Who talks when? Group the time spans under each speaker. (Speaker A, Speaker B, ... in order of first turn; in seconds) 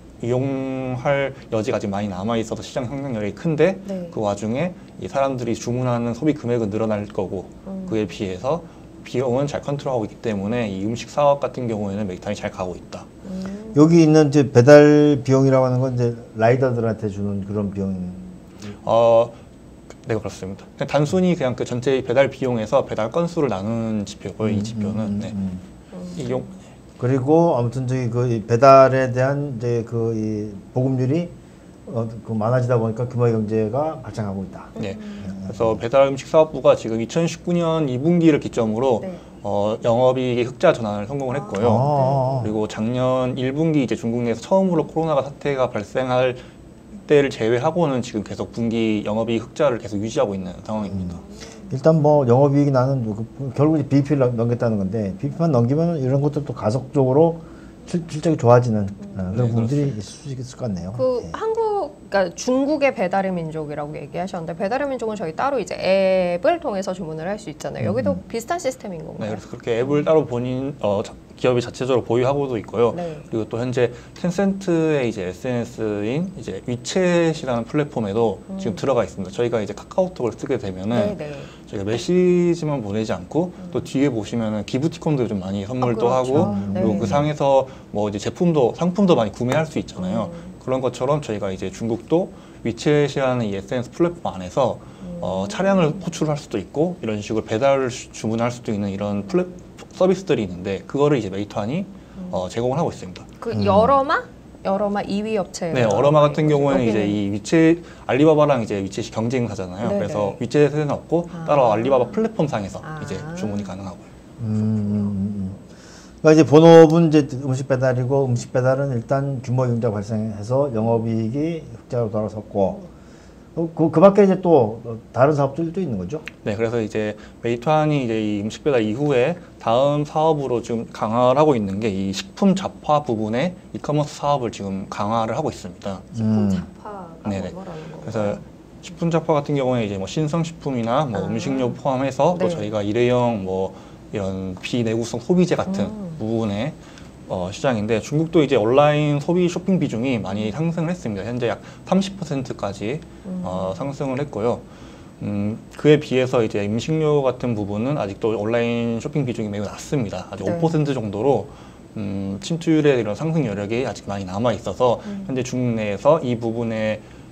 Speaker A: 0.2-13.1, 18.8-19.4, 20.0-25.3, 26.2-26.6, 34.8-46.5, 47.0-51.2, 59.3-60.0, 69.2-103.3, 105.7-114.1, 126.4-136.1, 137.2-154.7, 155.2-167.1
Speaker B: 3.9-4.2, 7.7-8.1, 13.2-13.9, 25.9-26.6, 34.8-35.4, 39.0-39.3, 41.3-42.5, 51.2-51.7, 60.9-70.1, 72.9-73.3, 78.5-78.8, 80.9-81.5, 85.8-87.2, 90.0-90.5, 95.0-96.0, 102.2-102.4, 103.4-107.2, 109.8-110.4, 111.3-112.2, 112.8-113.7, 114.6-115.2, 136.1-138.4, 141.1-141.8, 142.3-142.7, 145.7-146.2, 153.2-154.0, 160.4-160.8, 165.1-165.4
Speaker C: 13.7-18.5, 24.4-25.6, 27.0-31.3, 31.9-35.8, 41.6-42.6, 50.9-61.4, 67.8-68.2, 86.3-87.3, 103.5-104.0, 114.4-115.6, 116.2-122.9, 123.5-126.2, 136.1-136.7